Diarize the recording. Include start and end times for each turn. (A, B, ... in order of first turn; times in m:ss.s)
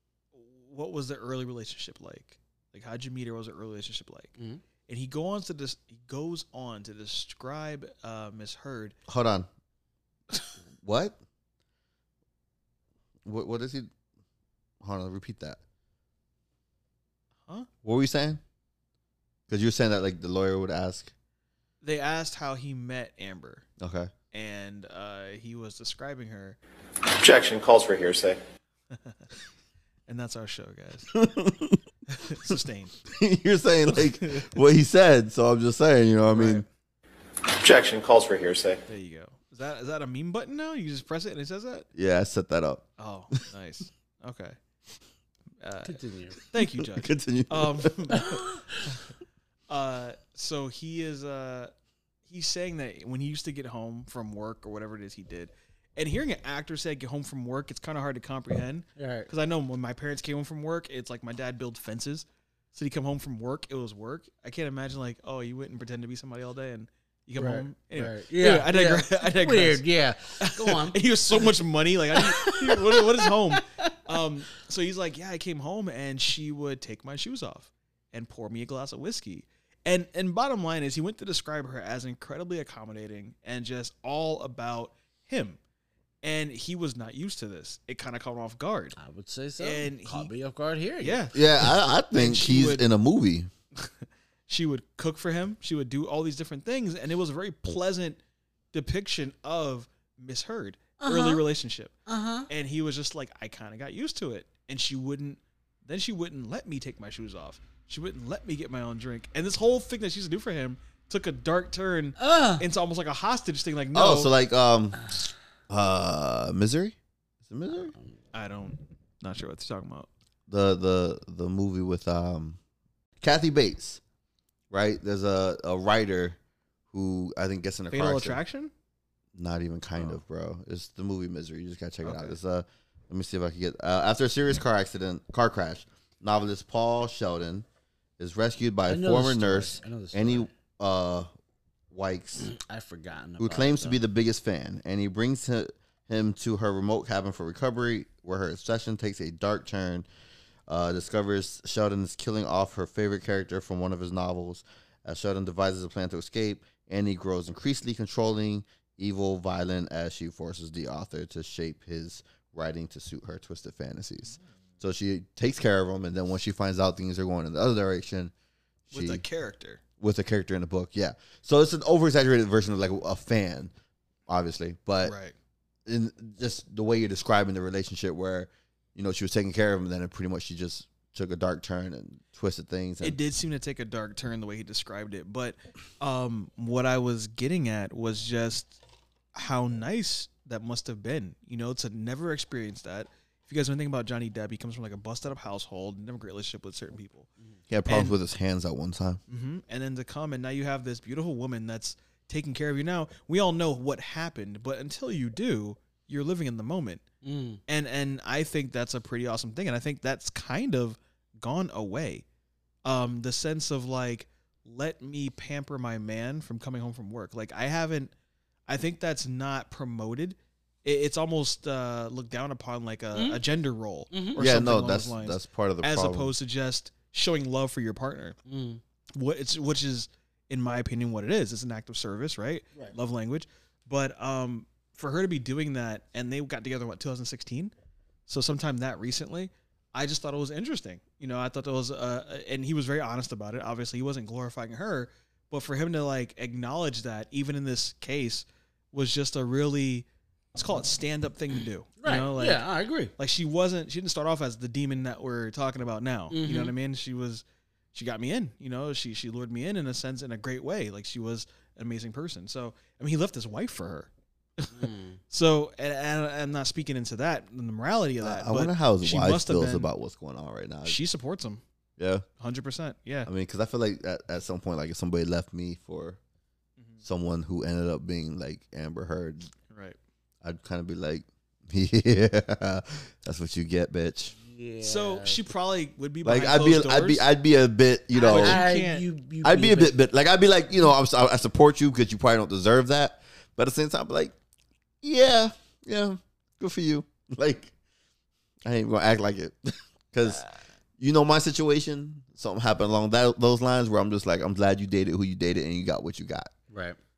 0:00.3-0:04.3 A
0:04.4-0:04.6 B
0:04.9-0:09.0 A
0:09.1-0:09.5 C
0:10.8-0:11.2 C
0:13.2-0:13.9 C
0:14.8-0:15.6 C
0:17.8-0:18.4 C
0:19.5-0:21.1 C
0:21.8-0:23.6 A
0:23.8-0:24.1 C
0:24.3-0:26.6 A
0:27.0-0:28.4 D
0:28.9-0:29.2 A
0:30.1-0:31.2 A
0:31.1-0:31.8 C
0:32.1-0:33.0 A
0:33.1-0:36.6 C
0:34.0-0:34.6 A
0:36.3-0:36.6 A
0:37.4-0:38.8 D
0:38.9-0:41.9 A
0:42.0-0:42.8 C
0:43.0-0:44.6 A
0:45.6-0:48.4 A
0:45.8-0:46.4 B
0:46.8-0:48.2 C
0:48.1-0:48.6 B
0:49.7-0:51.7 A
0:52.3-1:09.8 A
0:59.0-0:59.3 B
1:07.4-1:11.5 B
1:10.4-1:25.6 A
1:12.2-1:13.6 B
1:26.2-1:28.9 A
1:29.0-1:31.2 B
1:29.6-1:30.3 A
1:31.0-1:31.4 A
1:31.3-1:33.5 C
1:32.1-1:32.8 A
1:34.5-1:38.2 A
1:38.7-1:41.9 A
1:41.0-1:41.4 B
1:42.1-1:42.5 B
1:42.5-1:54.3 A
1:52.2-1:52.6 B
1:53.9-1:55.0 C
1:55.7-1:57.9 C
1:58.3-2:00.1 A
2:00.5-2:02.6 C
2:03.2-2:04.0 C
2:04.7-2:06.4 C
2:06.9-2:08.4 C
2:07.9-2:08.7 A
2:09.3-2:17.6 C
2:12.0-2:12.4 A
2:18.2-2:21.3 C
2:18.9-2:20.5 B
2:21.9-2:22.5 C
2:22.4-2:24.0 B
2:23.4-2:30.1 C
2:30.7-2:48.3 C
2:48.9-2:49.2 C
2:48.9-2:49.8 A
2:50.0-2:53.7 C
2:54.3-2:55.1 C
2:55.0-2:55.3 A
2:55.8-3:03.2 C
3:03.0-3:08.8 A
3:09.3-3:17.3 A
3:17.7-3:19.2 C
3:17.9-3:18.2 A
3:19.3-3:27.0 A
3:27.2-3:27.6 B
3:27.7-3:32.2 A
3:32.8-3:38.1 A
3:38.7-3:48.4 A
3:43.1-3:43.4 B
3:44.1-3:44.4 B
3:44.4-3:46.3 C
3:48.4-3:48.8 B
3:49.1-3:57.7 A
3:58.3-4:29.9 A
4:12.0-4:13.1 B
4:16.3-4:16.7 B
4:24.7-4:25.2 B
4:28.2-4:31.0 C
4:30.8-4:31.6 A
4:32.0-4:32.2 C
4:32.4-4:33.3 A
4:33.2-4:36.2 C
4:37.0-4:39.5 C
4:39.7-4:40.0 A
4:40.4-4:44.3 C
4:44.4-4:45.4 B
4:44.8-4:47.3 A
4:46.2-4:48.6 C
4:48.1-4:49.9 B
4:48.2-4:49.0 A
4:49.4-4:54.3 C
4:55.0-4:57.7 C
4:58.6-5:00.4 C
5:01.0-5:06.5 C
5:06.7-5:07.0 B